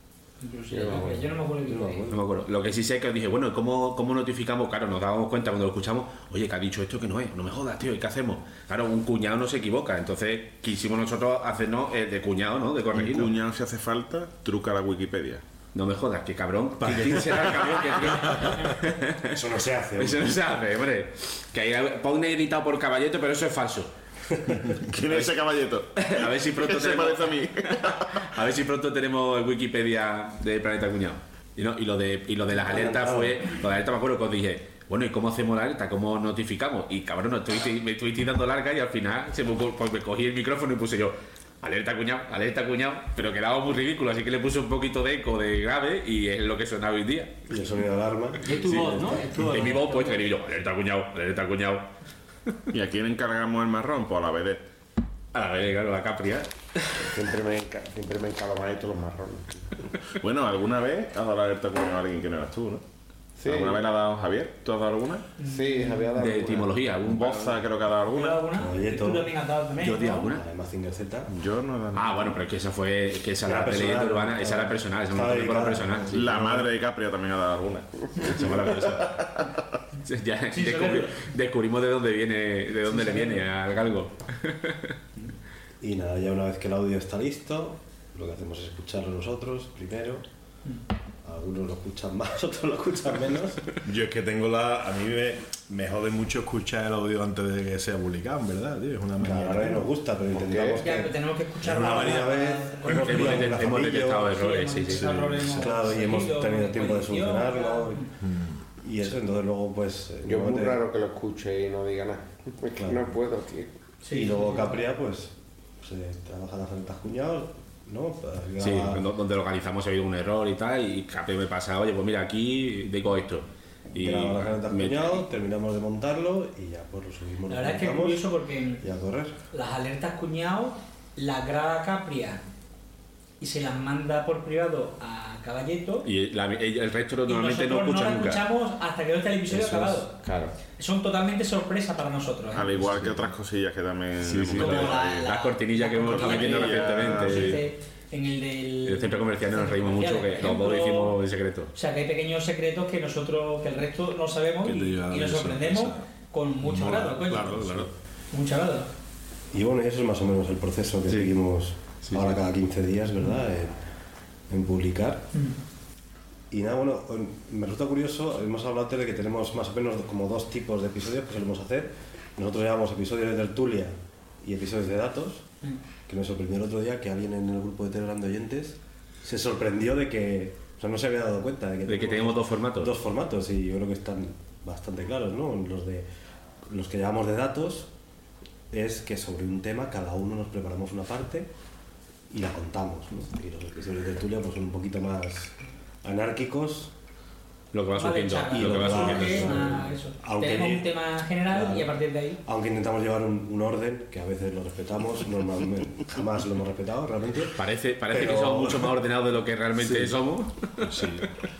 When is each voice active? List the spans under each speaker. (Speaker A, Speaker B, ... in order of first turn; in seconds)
Speaker A: 0.4-2.0, 48.4-50.2, 65.4-66.1, 68.1-70.2, 80.5-81.2, 82.9-83.4, 100.8-103.5, 104.2-108.1, 114.0-114.8, 127.5-128.8, 129.5-132.4, 133.4-136.1, 137.3-140.1, 140.8-142.7, 144.6-151.2, 151.7-157.7, 158.3-158.9, 198.0-202.4
Speaker B: 0.7-1.3, 57.0-59.7, 63.4-63.8, 65.4-66.8, 100.3-100.8, 110.3-113.7, 139.5-140.6
Speaker C: 1.6-2.2, 19.3-20.3, 32.5-33.4, 47.5-49.5, 68.5-71.3, 73.4-76.7, 85.8-90.2, 91.2-93.7, 99.2-101.1, 101.7-104.3, 105.5-108.1, 108.8-110.8, 112.8-113.1, 114.1-119.0, 124.0-128.2, 128.8-129.4, 159.5-163.7, 164.5-165.3, 166.5-175.5, 176.1-186.1, 186.7-187.9, 188.7-191.5, 192.3-196.9, 198.5-200.9, 201.5-201.9, 202.4-208.9
Speaker D: 2.1-13.3, 15.7-19.4, 20.0-23.9, 25.1-25.4, 26.0-47.5, 48.5-51.9, 55.3-56.5, 66.2-67.6, 69.8-70.4, 71.9-76.3, 78.2-79.2, 80.0-84.9, 102.9-105.1, 118.6-125.2, 136.1-138.4, 142.8-143.3, 144.2-147.6, 148.9-151.7, 162.0-162.3, 181.9-182.9, 197.7-199.8, 207.6-211.0
Speaker E: 13.0-15.4, 24.9-28.2, 52.7-54.6, 60.2-62.8, 63.4-65.3, 67.0-68.5, 71.3-72.3, 76.1-79.5, 142.5-145.3, 146.0-147.6
Speaker F: 16.8-18.6, 93.8-99.8, 101.7-102.3, 104.9-105.6, 108.2-108.6, 154.6-156.1, 156.6-157.9, 210.8-211.3